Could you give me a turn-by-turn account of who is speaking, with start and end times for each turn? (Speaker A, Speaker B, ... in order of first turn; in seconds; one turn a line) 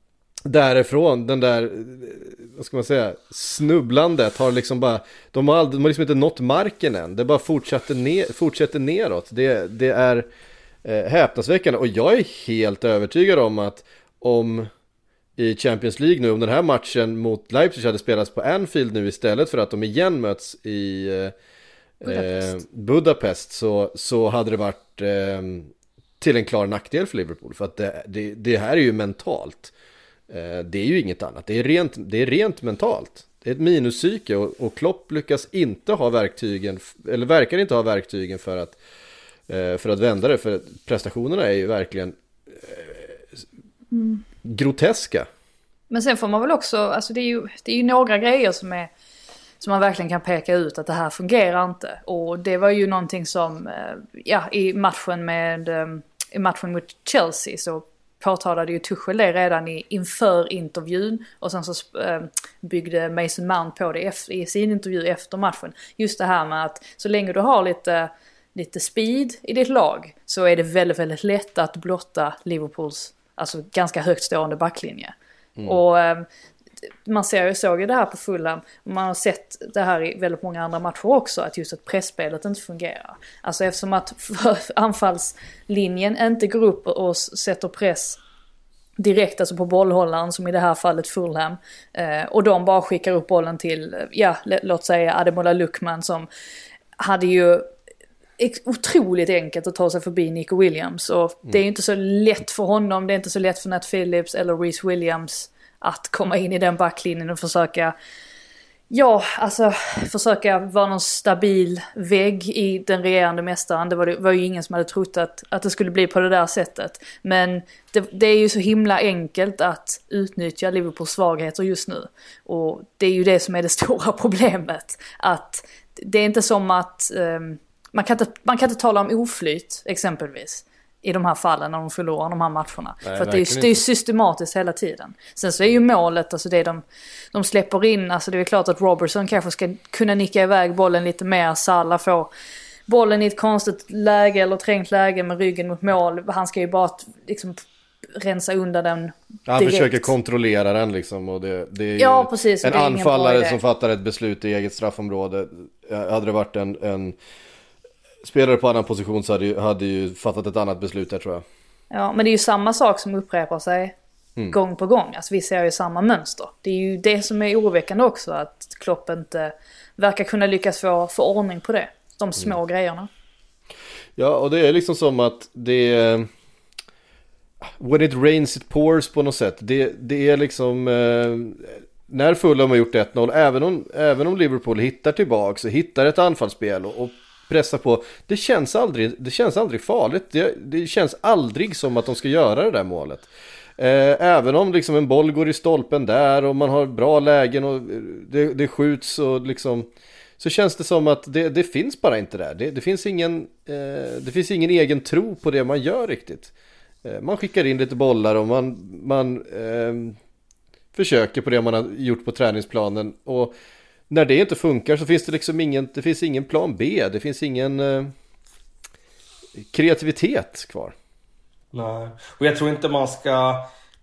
Speaker A: 0.5-10.3
Speaker A: 10.8-14.7
Speaker A: 15.4-21.3
Speaker A: 22.0-29.7
Speaker B: 22.0-22.6
Speaker A: 30.3-38.8
Speaker A: 39.5-43.2
Speaker B: 43.9-44.2
Speaker A: 44.4-45.3
Speaker B: 45.9-48.9
Speaker B: 49.6-75.1
Speaker B: 75.7-76.3
Speaker B: 77.1-88.2
Speaker B: 89.0-96.3
Speaker B: 97.0-97.7
Speaker B: 98.4-107.9
Speaker B: 108.9-142.3
Speaker A: 133.1-133.8
Speaker B: 142.9-147.6
Speaker B: 148.2-150.1
Speaker A: 149.5-157.2
Speaker B: 152.0-153.6
Speaker A: 158.2-161.4
Speaker B: 161.9-163.9
Speaker B: 164.5-173.1
Speaker A: 174.2-176.3
Speaker A: 177.6-206.5
Speaker A: 207.0-210.2
Speaker A: 210.9-213.5
Speaker A: 214.1-218.1
Speaker A: 219.6-220.9
Speaker C: 221.7-223.7